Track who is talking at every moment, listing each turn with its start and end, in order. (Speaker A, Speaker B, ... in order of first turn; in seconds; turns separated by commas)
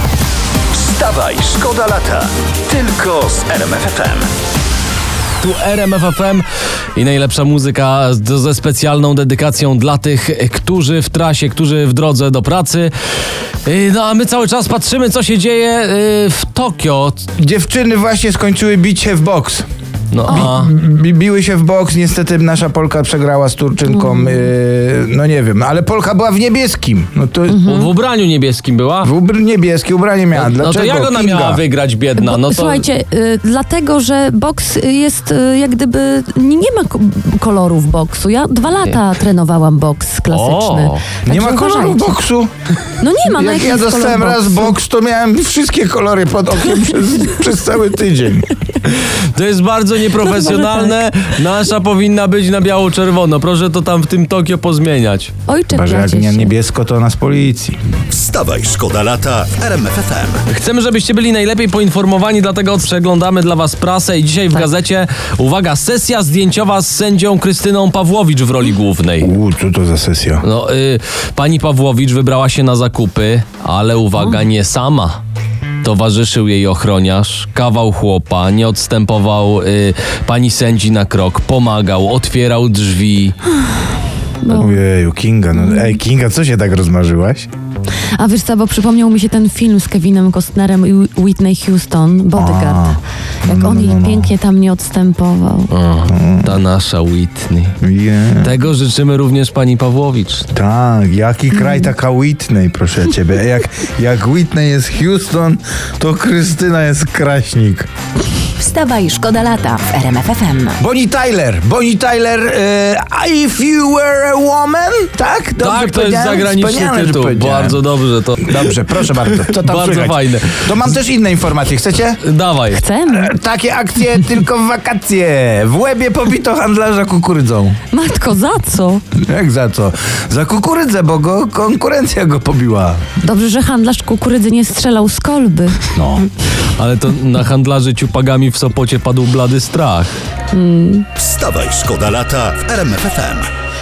Speaker A: 0.7-4.3, Speaker B: 5.4-6.4, Speaker B: 7.0-12.9, Speaker B: 13.7-17.3, Speaker C: 17.4-19.7, Speaker B: 20.1-20.7, Speaker C: 20.3-27.8, Speaker D: 23.9-24.5, Speaker D: 27.5-27.9, Speaker B: 27.6-29.1, Speaker C: 29.0-31.6, Speaker B: 30.4-32.9, Speaker D: 32.2-42.2, Speaker B: 40.3-41.0, Speaker C: 41.2-42.5, Speaker D: 43.0-44.7, Speaker C: 43.2-48.5, Speaker B: 48.9-55.3, Speaker D: 50.2-50.9, Speaker D: 55.5-56.5, Speaker C: 55.7-57.8, Speaker A: 58.1-60.4, Speaker B: 60.5-69.3, Speaker C: 69.2-70.4, Speaker B: 70.4-75.2, Speaker B: 75.8-83.4, Speaker D: 84.4-84.8, Speaker C: 84.5-87.5, Speaker D: 85.5-86.0, Speaker D: 88.2-92.8, Speaker C: 92.3-94.3, Speaker D: 93.5-95.7, Speaker B: 95.7-97.8, Speaker C: 96.1-96.6, Speaker C: 97.8-98.6, Speaker B: 98.4-100.5, Speaker C: 100.5-107.9, Speaker D: 101.5-101.9, Speaker E: 108.6-110.8, Speaker C: 110.8-117.8, Speaker B: 115.6-120.8, Speaker C: 118.4-122.2, Speaker B: 122.2-122.8, Speaker D: 122.7-123.3, Speaker C: 123.1-127.8, Speaker D: 127.9-129.0, Speaker C: 129.2-133.0, Speaker D: 133.2-135.8, Speaker C: 135.9-136.3, Speaker B: 136.8-140.1, Speaker D: 140.5-141.1, Speaker A: 141.2-143.5